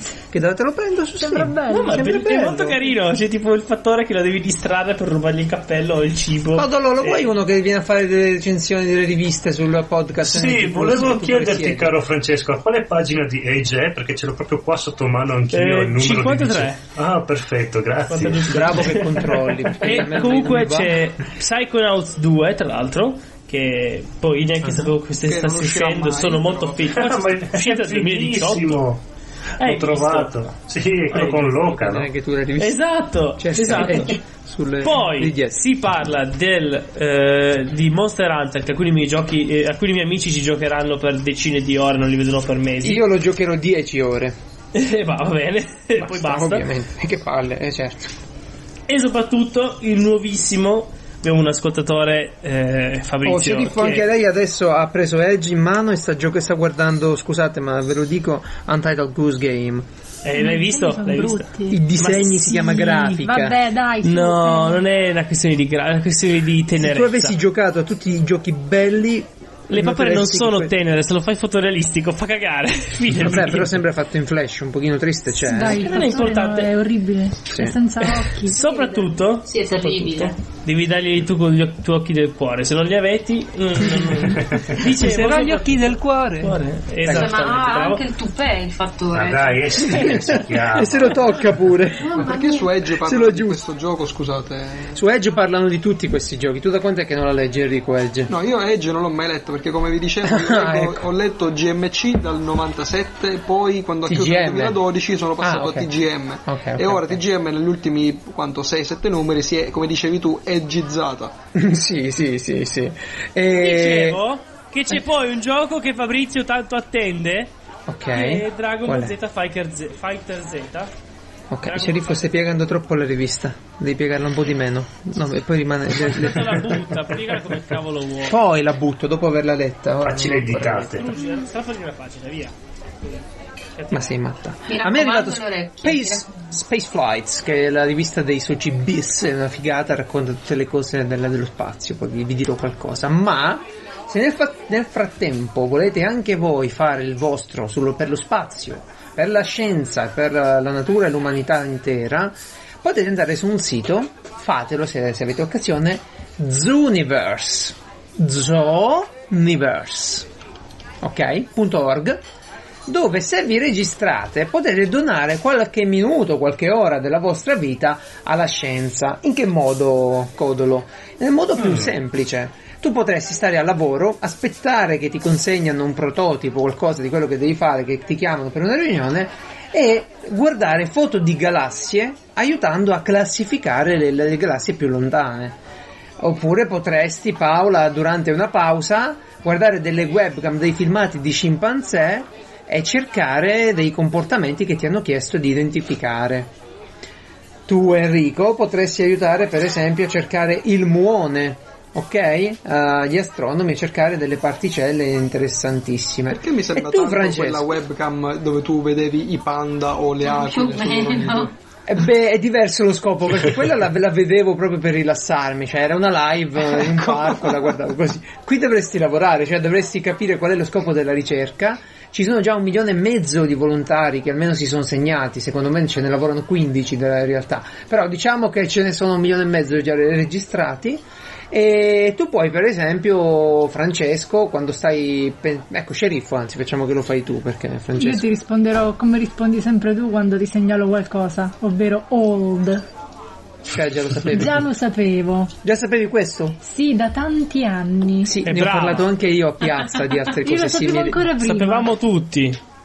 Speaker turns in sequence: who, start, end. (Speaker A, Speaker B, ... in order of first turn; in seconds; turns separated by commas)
Speaker A: 0.3-2.8, Speaker B: 1.2-2.2, Speaker C: 1.7-7.2, Speaker A: 6.5-11.9, Speaker D: 10.2-18.7, Speaker C: 15.5-16.8, Speaker C: 18.1-28.8, Speaker A: 18.5-21.0, Speaker A: 24.6-24.9, Speaker E: 25.2-27.0, Speaker D: 26.9-29.0, Speaker C: 29.6-30.3, Speaker D: 29.6-32.1, Speaker C: 31.1-31.5, Speaker A: 31.6-32.8, Speaker C: 32.6-34.2, Speaker A: 33.4-35.6, Speaker C: 34.8-43.0, Speaker A: 42.8-44.4, Speaker C: 44.7-46.7, Speaker A: 46.0-48.1, Speaker C: 48.9-54.0, Speaker A: 53.2-59.9, Speaker C: 60.2-63.2, Speaker B: 60.3-61.8, Speaker A: 61.7-63.6, Speaker B: 62.5-64.8, Speaker C: 64.0-67.3, Speaker A: 66.8-70.7, Speaker C: 69.7-73.8, Speaker A: 73.2-75.9, Speaker B: 75.4-78.6, Speaker C: 75.6-76.7, Speaker A: 77.5-77.8, Speaker C: 78.0-88.0, Speaker F: 78.6-80.4, Speaker D: 84.3-84.8, Speaker A: 84.8-87.3, Speaker F: 87.0-89.9, Speaker D: 89.1-91.2, Speaker A: 89.8-92.3, Speaker F: 92.0-92.7, Speaker E: 92.2-95.0, Speaker A: 92.9-93.6, Speaker A: 94.9-98.3, Speaker E: 98.3-111.3, Speaker A: 100.2-101.1, Speaker A: 104.1-104.8, Speaker A: 105.4-107.2, Speaker A: 111.5-114.2, Speaker C: 113.5-117.5, Speaker A: 117.9-119.1, Speaker C: 118.1-120.9, Speaker A: 121.5-127.2, Speaker C: 121.6-122.3, Speaker C: 125.9-128.4, Speaker A: 128.2-131.0, Speaker D: 130.0-131.1, Speaker C: 130.5-133.2, Speaker C: 133.8-134.2, Speaker A: 133.9-160.3, Speaker F: 134.7-136.3, Speaker A: 161.0-162.2, Speaker A: 162.9-185.6, Speaker A: 186.2-196.5, Speaker A: 197.7-207.7, Speaker E: 206.3-211.5, Speaker F: 210.2-211.5, Speaker A: 211.8-238.3, Speaker E: 216.9-217.5, Speaker B: 238.0-242.8, Speaker A: 243.7-244.6, Speaker B: 244.2-245.5, Speaker A: 245.6-246.6, Speaker B: 246.6-248.4, Speaker A: 248.2-251.3, Speaker C: 248.4-249.1, Speaker B: 250.4-251.9, Speaker C: 251.4-252.6